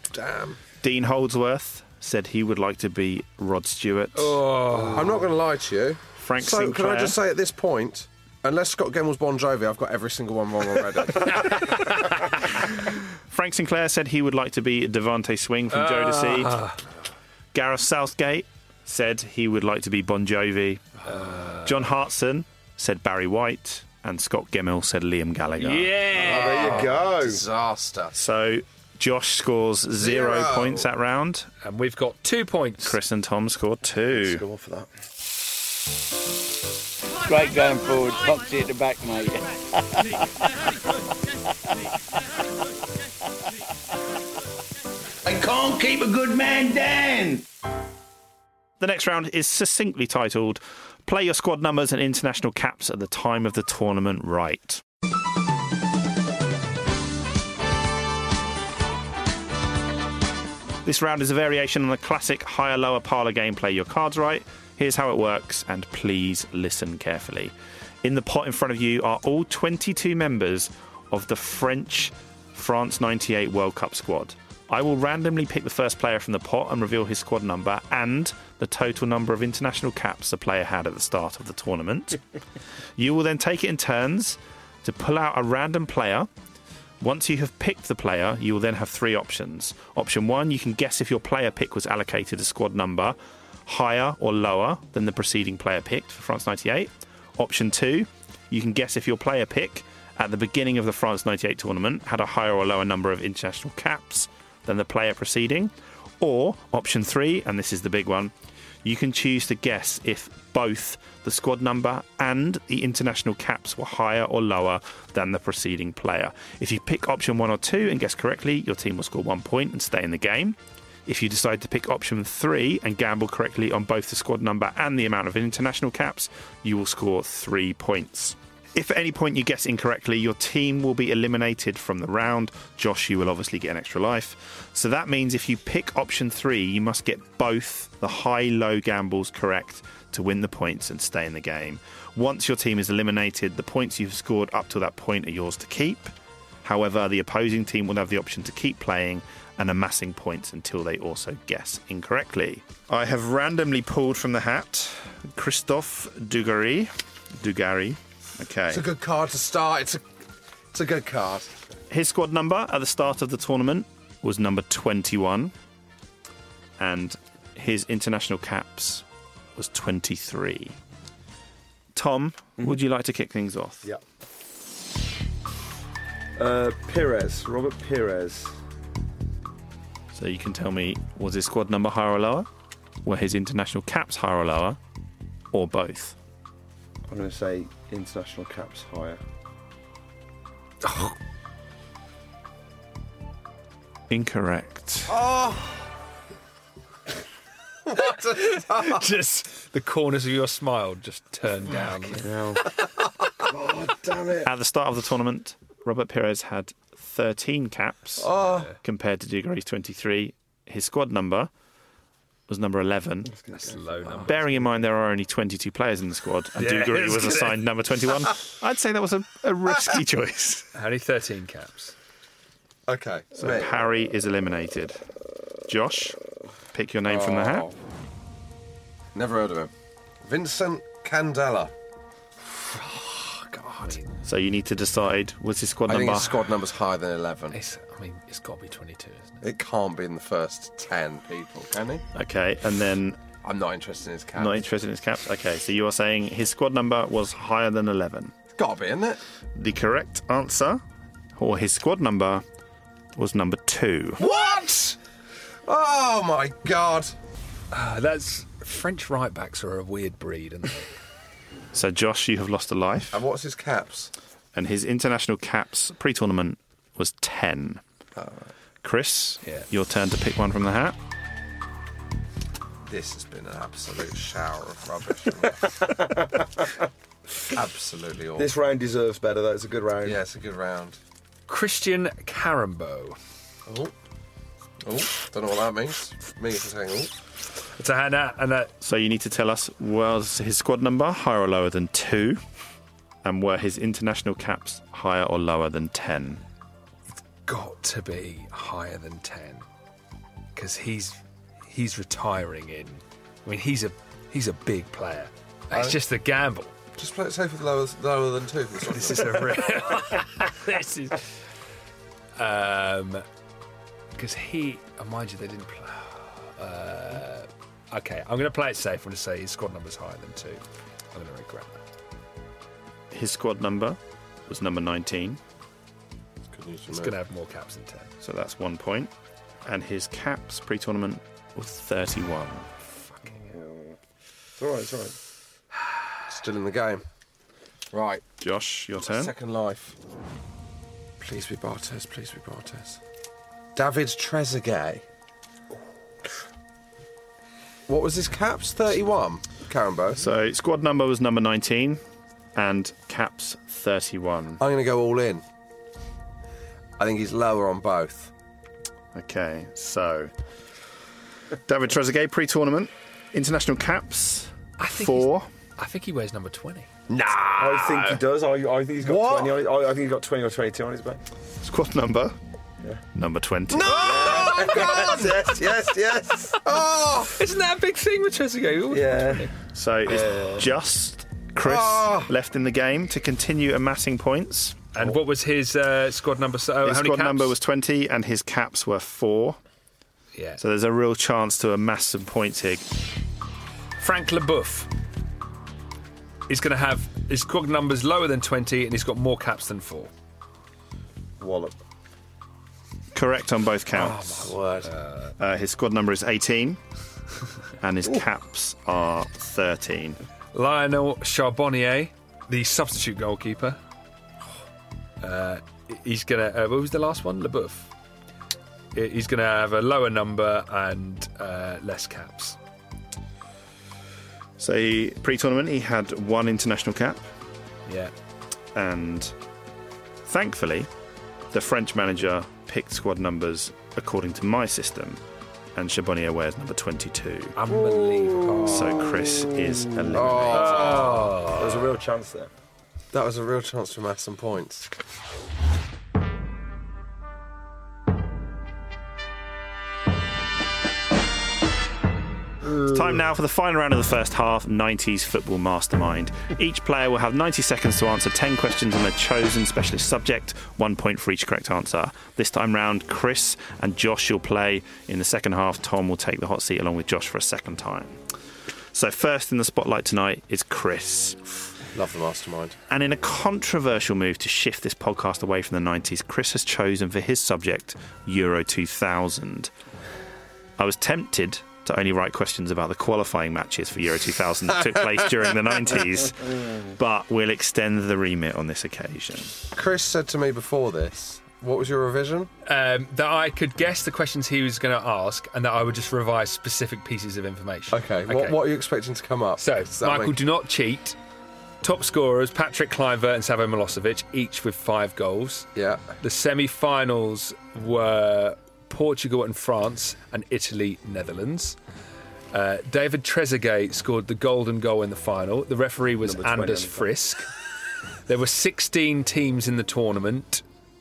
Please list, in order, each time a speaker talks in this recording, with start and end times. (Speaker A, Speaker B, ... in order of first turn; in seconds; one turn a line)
Speaker A: 0.1-0.6
Speaker B: 0.8-4.4
Speaker C: 4.1-5.2
Speaker D: 4.7-5.2
Speaker A: 4.9-11.7
Speaker B: 6.2-7.2
Speaker B: 13.3-16.6
Speaker C: 15.7-16.8
Speaker B: 17.5-21.0
Speaker C: 21.1-21.9
Speaker B: 21.6-26.1
Speaker C: 25.6-26.9
Speaker D: 26.1-27.4
Speaker A: 26.1-28.1
Speaker B: 28.1-31.5
Speaker A: 30.0-30.9
Speaker C: 31.6-33.0
Speaker B: 32.8-34.4
Speaker D: 34.1-34.9
Speaker E: 37.2-39.4
Speaker E: 45.2-47.4
Speaker B: 48.8-54.8
Speaker B: 60.8-82.2
Speaker B: 83.0-86.3
Speaker B: 87.0-108.3
Speaker B: 108.8-146.1
Speaker B: 146.6-158.8
Speaker A: 158.7-160.0
Speaker A: 160.7-161.5
Speaker B: 161.9-165.5
Speaker B: 166.8-169.0
Speaker B: 169.6-170.8
Speaker B: 171.9-173.9
Speaker D: 176.4-178.6
Speaker B: 180.1-182.5
Speaker B: 183.0-184.8
Speaker B: 185.5-186.1
Speaker D: 187.1-189.2
Speaker C: 190.8-191.1
Speaker B: 194.1-195.1
Speaker A: 195.1-195.8
Speaker A: 197.9-199.1
Speaker C: 198.8-202.3
Speaker D: 202.2-202.6
Speaker D: 203.5-204.5
Speaker B: 204.4-208.3
Speaker A: 208.2-208.7
Speaker C: 208.3-208.7
Speaker B: 208.8-211.5
Speaker B: 212.5-213.3
Speaker D: 213.3-214.3
Speaker C: 213.5-214.6
Speaker B: 214.2-220.7
Speaker C: 216.6-217.6
Speaker C: 220.8-221.9
Speaker A: 222.9-223.8
Speaker B: 223.4-225.0
Speaker B: 225.7-226.2
Speaker B: 226.7-227.7
Speaker A: 227.1-227.7
Speaker A: 229.1-229.7
Speaker A: 230.2-231.7
Speaker C: 232.7-234.1
Speaker B: 234.2-236.4
Speaker A: 235.9-237.6
Speaker C: 237.5-239.4
Speaker A: 239.4-242.0
Speaker B: 242.1-243.2
Speaker A: 243.4-244.7
Speaker B: 244.4-248.3
Speaker A: 248.6-249.2
Speaker B: 249.6-250.8
Speaker B: 251.4-252.4
Speaker B: 253.2-254.2
Speaker A: 254.2-254.9
Speaker A: 255.7-257.1
Speaker C: 257.7-260.9
Speaker B: 261.7-263.2
Speaker A: 263.1-264.1
Speaker B: 264.6-267.8
Speaker A: 268.1-268.4
Speaker B: 268.8-270.9
Speaker A: 272.9-276.0
Speaker A: 277.5-278.5
Speaker D: 278.4-280.2
Speaker A: 280.0-281.0
Speaker C: 281.5-283.2
Speaker A: 283.6-283.9
Speaker A: 284.8-287.1
Speaker C: 287.8-288.7
Speaker B: 288.8-292.4
Speaker B: 293.2-296.4
Speaker C: 297.5-299.6
Speaker C: 300.6-306.7
Speaker A: 305.7-306.0
Speaker A: 306.9-309.9
Speaker C: 308.8-311.4
Speaker C: 312.4-313.2
Speaker C: 314.1-320.6
Speaker C: 321.1-321.8
Speaker B: 323.1-325.4
Speaker A: 326.5-327.1
Speaker C: 326.9-328.1
Speaker B: 328.2-329.1
Speaker B: 329.6-332.7
Speaker C: 333.2-333.5
Speaker D: 333.4-333.9
Speaker D: 334.6-335.1
Speaker A: 336.3-337.0
Speaker A: 337.9-338.3
Speaker B: 338.4-339.3
Speaker A: 339.0-339.9
Speaker A: 341.2-343.0
Speaker A: 343.7-345.0
Speaker A: 347.9-350.3
Speaker B: 350.2-352.0
Speaker B: 352.6-354.6
Speaker A: 354.6-355.4
Speaker A: 357.0-358.3
Speaker B: 359.1-360.3
Speaker B: 361.6-365.5
Speaker C: 364.8-366.9
Speaker A: 367.1-368.2
Speaker D: 367.6-371.2
Speaker A: 369.0-369.6
Speaker B: 371.6-372.3
Speaker B: 373.1-374.1
Speaker A: 373.7-375.6
Speaker D: 374.0-376.6
Speaker A: 376.6-377.3
Speaker C: 377.4-379.5
Speaker D: 378.9-379.5
Speaker B: 379.7-384.9
Speaker C: 380.1-380.6
Speaker A: 381.6-382.3
Speaker C: 384.9-387.5
Speaker B: 386.8-389.6
Speaker C: 390.3-390.6
Speaker B: 390.6-392.9
Speaker C: 394.0-394.9
Speaker C: 396.5-400.1
Speaker D: 401.4-401.7
Speaker B: 403.1-404.3
Speaker A: 403.9-404.9
Speaker C: 404.2-405.3
Speaker B: 405.4-406.8
Speaker B: 407.8-410.2
Speaker C: 410.5-413.8
Speaker C: 415.2-417.9
Speaker C: 418.9-422.6
Speaker B: 424.6-427.2
Speaker C: 427.9-428.1
Speaker B: 428.7-429.3
Speaker B: 430.2-430.9
Speaker B: 431.5-435.2
Speaker B: 435.7-437.6
Speaker C: 437.6-439.1
Speaker B: 438.6-440.9
Speaker A: 440.1-441.5
Speaker C: 440.5-441.9
Speaker D: 441.5-442.5
Speaker A: 443.1-444.9
Speaker B: 452.8-468.2
Speaker B: 468.9-471.4
Speaker A: 471.9-472.8
Speaker B: 472.9-479.7
Speaker B: 480.8-489.5
Speaker A: 489.7-492.5
Speaker C: 492.6-498.6
Speaker A: 497.9-500.4
Speaker C: 499.6-501.2
Speaker C: 501.8-505.7
Speaker A: 505.7-506.1
Speaker C: 506.2-511.8
Speaker C: 512.5-517.5
Speaker D: 516.2-517.1
Speaker C: 518.3-520.6